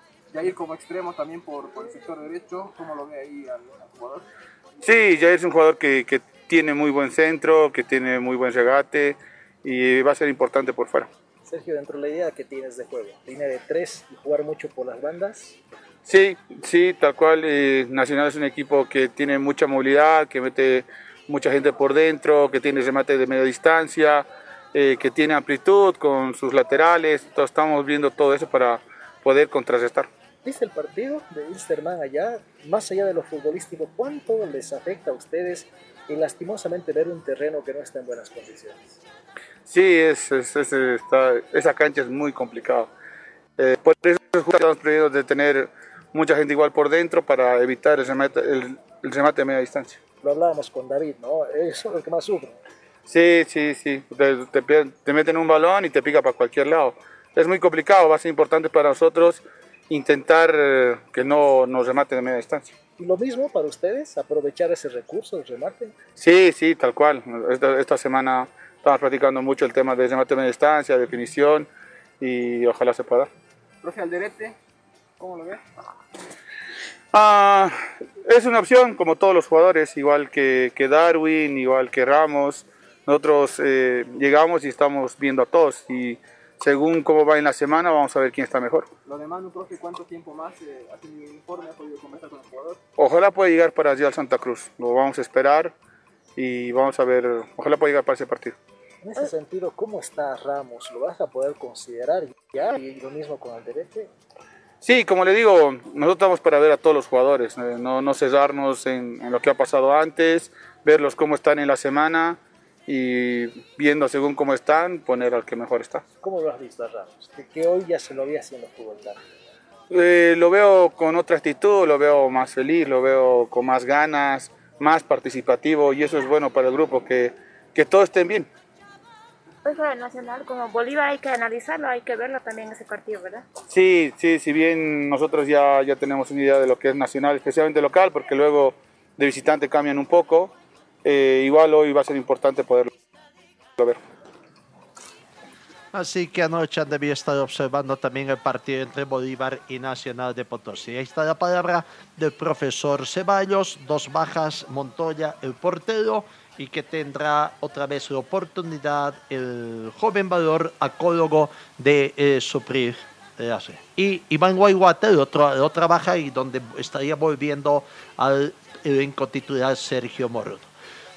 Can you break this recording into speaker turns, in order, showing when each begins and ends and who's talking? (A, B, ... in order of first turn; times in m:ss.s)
0:00.3-0:04.2 A
0:04.8-0:11.1 B
0:11.5-0:15.6 C
0:16.0-0:30.1 B
0:30.4-0:38.9 C
0:39.7-0:42.9 B
0:43.6-0:50.0 B
0:50.2-0:52.6 C
0:53.1-1:02.7 B
1:03.0-1:05.9 C
1:06.2-1:11.7 B
1:12.2-1:13.3 B
1:13.8-1:14.5 A
1:15.2-1:15.6 A
1:17.1-1:28.9 B
1:29.0-1:32.8 A
1:33.0-1:35.7 B
1:36.4-1:38.5 B
1:39.0-1:44.1 C
1:44.8-1:56.0 B
1:56.2-1:59.2 C
1:59.9-2:08.5 B
2:09.6-2:13.4 D
2:13.7-2:22.9 B
2:25.9-2:50.7 E